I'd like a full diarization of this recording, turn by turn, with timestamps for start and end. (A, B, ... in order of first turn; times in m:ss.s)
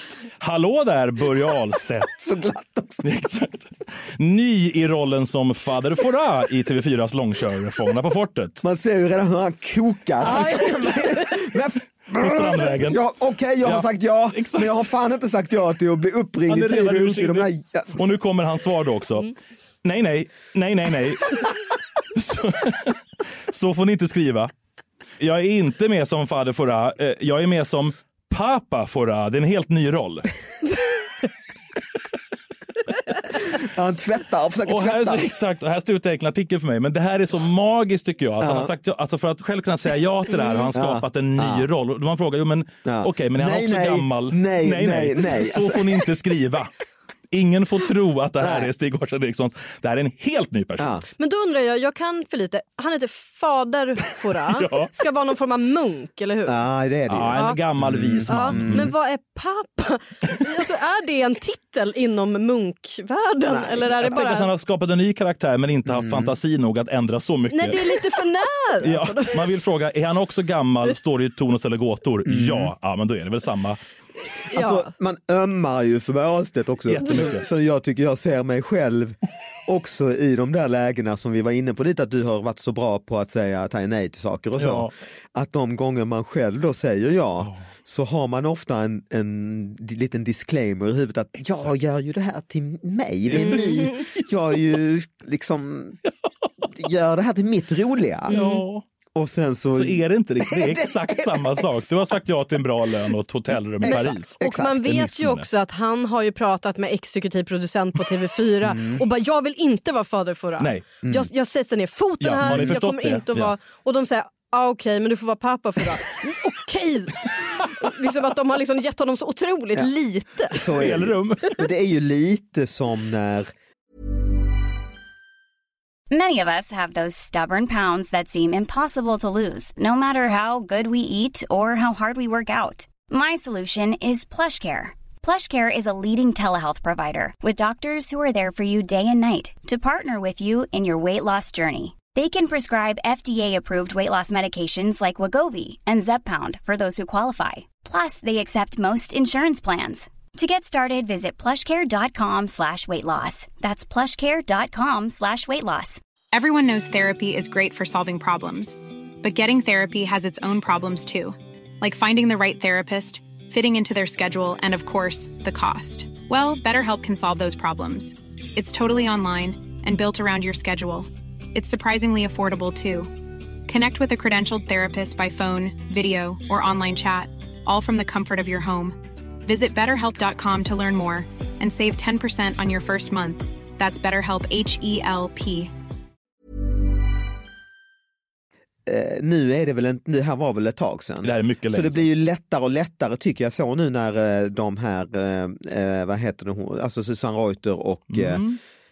0:00.4-0:02.2 A
0:02.1-0:03.1 B
0:03.0-0:08.6 A
0:08.6-0:18.1 B
0:10.4-0:10.6 A
0:10.4-0:10.9 C
0:12.1-0:13.0 A
0:13.6-0:14.9 A
0:16.5-0:19.3 A
0:19.8-0:21.5 A
0:22.2-0:23.0 A
0:23.5-0:24.5 A
0:25.2-0:30.3 A
0:33.5-0:35.3 B
0:34.7-0:46.7 A
0:38.4-0:38.7 B
0:40.4-0:40.6 C
0:40.7-0:41.7 B
0:42.8-0:46.0 B
0:47.3-0:51.0 A
0:48.4-0:48.7 B
0:50.8-0:51.0 B
0:51.2-0:56.6 C
0:54.5-0:54.9 A
0:56.5-0:58.9 B
0:57.1-0:58.9 A
0:58.3-1:04.5 C
1:03.5-1:04.1 B
1:04.0-1:08.2 A
1:05.9-1:06.4 B
1:07.5-1:09.6 C
1:08.8-1:13.8 A
1:12.3-1:12.7 B
1:14.5-1:14.9 C
1:14.5-1:36.0 B
1:16.9-1:17.5 A
1:24.6-1:24.9 A
1:33.3-1:34.4 A
1:33.4-1:34.0 C
1:36.8-1:38.4 B
1:38.3-1:38.6 C
1:38.3-1:38.8 A
1:39.2-1:41.9 B
1:39.7-1:45.5 A
1:43.8-1:45.0 B
1:43.8-2:00.7 C
1:48.7-1:49.0 B
1:50.6-1:50.9 A
1:51.0-1:51.3 B
1:52.2-1:53.5 A
1:52.4-1:52.8 B
2:00.5-2:03.5 B
2:00.6-2:01.5 A
2:06.1-2:36.0 D
2:36.3-3:05.7 E
3:08.9-3:18.4 B
3:11.2-3:12.0 A
3:18.1-3:18.6 A